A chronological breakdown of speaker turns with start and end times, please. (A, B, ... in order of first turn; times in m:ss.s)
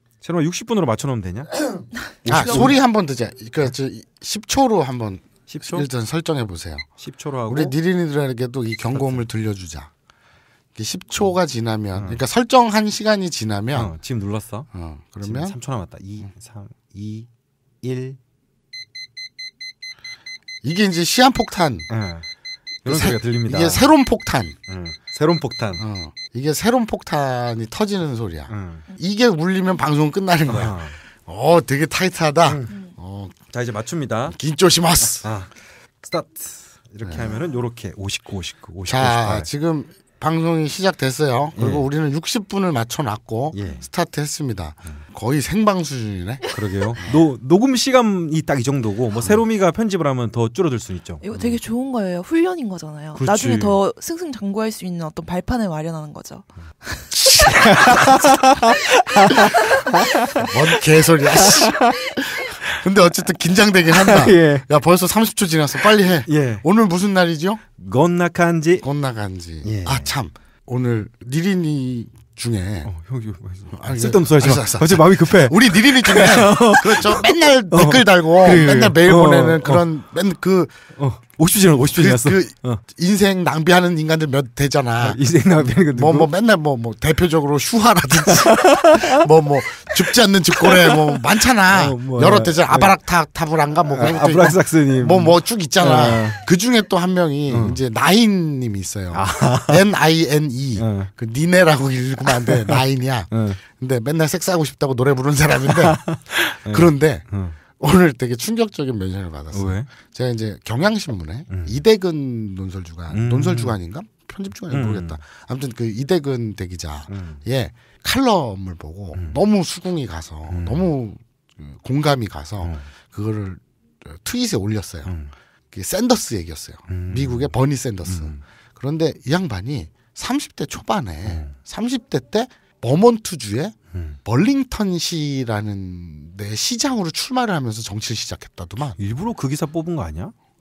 0:00.2-0:02.8 A
0:02.2-0:06.9 B
0:05.5-0:05.9 A
0:07.0-0:07.8 A
0:07.5-0:09.9 B
0:08.9-0:09.2 A
0:10.7-0:13.9 B
0:11.9-0:12.2 A
0:13.7-0:14.7 A
0:14.7-0:15.6 B
0:15.2-0:17.3 A
0:17.8-0:18.2 A
0:20.6-0:21.9 B
0:21.9-0:22.2 A
0:22.8-0:23.9 A
0:22.8-0:24.6 B
0:24.7-0:25.8 A
0:25.8-0:33.3 B
0:28.5-0:28.8 A
0:30.4-0:31.0 A
0:32.4-0:32.8 A
0:33.5-0:34.4 A
0:34.3-0:35.3 B
0:35.2-0:39.5 A
0:37.0-0:37.4 B
0:38.8-0:47.2 B
0:41.5-0:41.8 A
0:43.5-0:43.8 A
0:46.5-0:51.2 A
0:51.2-0:58.7 C
0:51.3-0:51.6 B
0:53.2-0:53.8 A
0:57.1-0:58.2 B
0:57.6-1:02.8 A
0:59.3-0:59.8 C
1:00.4-1:07.6 B
1:03.9-1:04.6 A
1:06.2-1:06.6 A
1:07.8-1:08.8 A
1:08.8-1:12.9 B
1:09.6-1:10.1 A
1:12.8-1:19.8 A
1:13.7-1:20.7 B
1:21.0-1:22.8 A
1:21.9-1:25.2 B
1:25.0-1:26.3 A
1:25.9-1:46.0 B
1:28.2-1:29.2 A
1:29.9-1:32.9 A
1:33.9-1:36.4 A
1:37.5-1:37.8 A
1:39.1-1:39.8 A
1:40.8-1:41.1 A
1:42.3-1:43.6 A
1:45.7-1:47.6 A
1:46.6-2:05.1 B
1:49.5-1:49.9 A
1:51.5-1:51.8 A
1:53.1-1:53.8 A
1:54.7-1:55.2 A
1:57.1-1:57.4 A
2:00.5-2:00.9 A
2:02.6-2:02.9 A
2:05.0-2:05.3 A
2:05.7-2:19.0 B
2:06.9-2:07.5 A
2:08.0-2:08.4 A
2:11.2-2:11.5 A
2:13.9-2:14.2 A
2:19.0-2:20.3 A